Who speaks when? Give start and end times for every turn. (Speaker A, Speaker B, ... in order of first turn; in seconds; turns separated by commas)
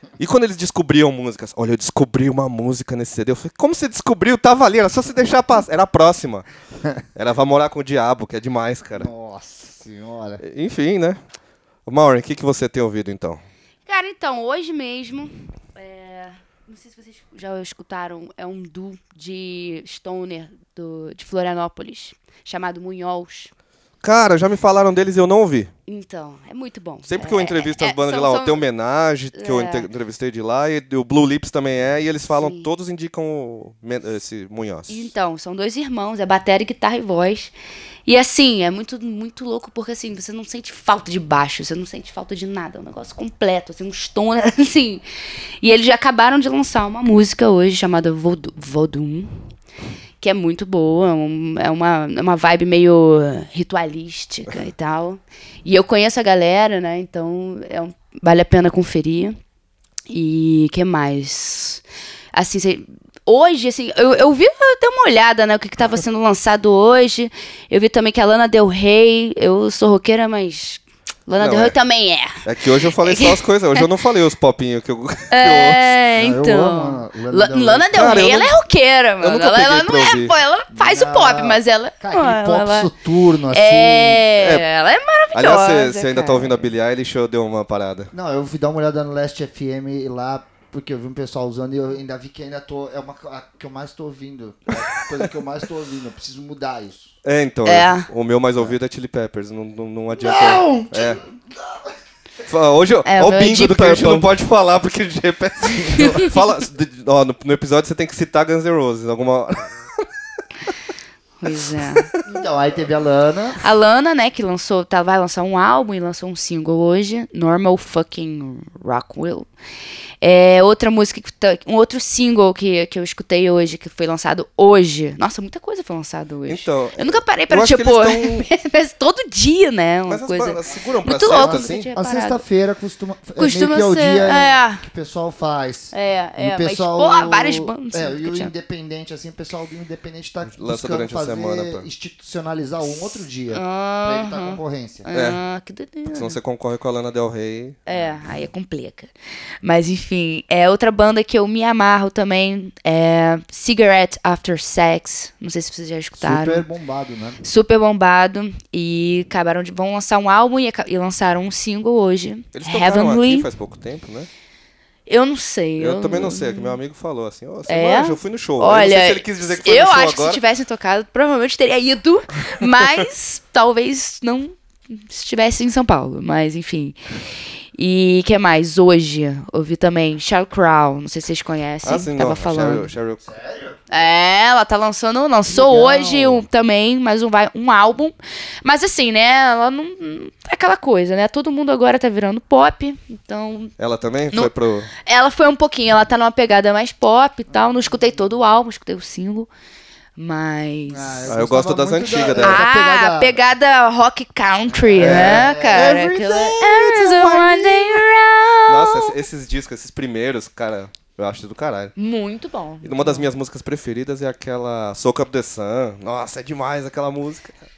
Speaker A: 0.2-6.5, Speaker A: 7.1-9.1, Speaker B: 9.0-10.4, Speaker A: 10.4-11.2, Speaker A: 11.8-13.4, Speaker C: 13.8-23.5, Speaker A: 24.0-25.7, Speaker C: 25.9-28.6, Speaker A: 27.1-35.1, Speaker C: 29.3-29.9, Speaker C: 32.3-32.7, Speaker C: 34.9-37.5, Speaker C: 38.0-45.0, Speaker C: 45.6-49.3, Speaker C: 50.2-59.4, Speaker C: 60.1-73.9, Speaker A: 71.4-71.8, Speaker A: 72.4-75.9, Speaker C: 75.3-82.9, Speaker B: 76.2-78.0, Speaker A: 77.9-78.5, Speaker A: 79.2-80.3, Speaker B: 80.7-84.2, Speaker C: 83.5-86.7, Speaker A: 84.4-84.7, Speaker A: 85.3-88.1, Speaker B: 88.1-97.1, Speaker A: 95.0-95.3, Speaker A: 97.2-101.2, Speaker C: 97.6-98.1, Speaker B: 100.1-102.0, Speaker A: 102.4-110.0, Speaker C: 103.0-104.3, Speaker B: 105.8-106.2, Speaker C: 105.8-106.3, Speaker C: 111.4-112.1, Speaker B: 112.2-113.6, Speaker C: 113.6-119.5, Speaker C: 120.2-132.4, Speaker A: 126.5-128.4, Speaker A: 130.1-131.9, Speaker B: 131.3-145.1, Speaker C: 133.4-134.8, Speaker C: 135.9-138.5, Speaker A: 140.5-141.8, Speaker C: 142.8-146.4, Speaker A: 145.1-145.4, Speaker A: 146.1-147.8, Speaker C: 147.9-149.1, Speaker C: 149.6-156.6, Speaker B: 156.2-157.4, Speaker C: 157.4-163.5, Speaker A: 162.5-164.3, Speaker C: 165.1-166.8, Speaker A: 165.8-170.4, Speaker C: 167.7-177.0, Speaker C: 177.7-182.9, Speaker A: 181.8-183.2, Speaker B: 183.2-183.8, Speaker C: 183.9-193.7, Speaker B: 185.5-186.4, Speaker A: 193.8-194.9, Speaker C: 195.0-199.5, Speaker B: 197.5-198.1, Speaker C: 200.2-201.4, Speaker B: 200.9-203.4, Speaker A: 201.3-202.7, Speaker C: 202.4-209.2, Speaker B: 204.7-206.1, Speaker A: 205.0-208.0, Speaker A: 208.7-211.9, Speaker C: 212.0-213.3, Speaker A: 212.8-217.6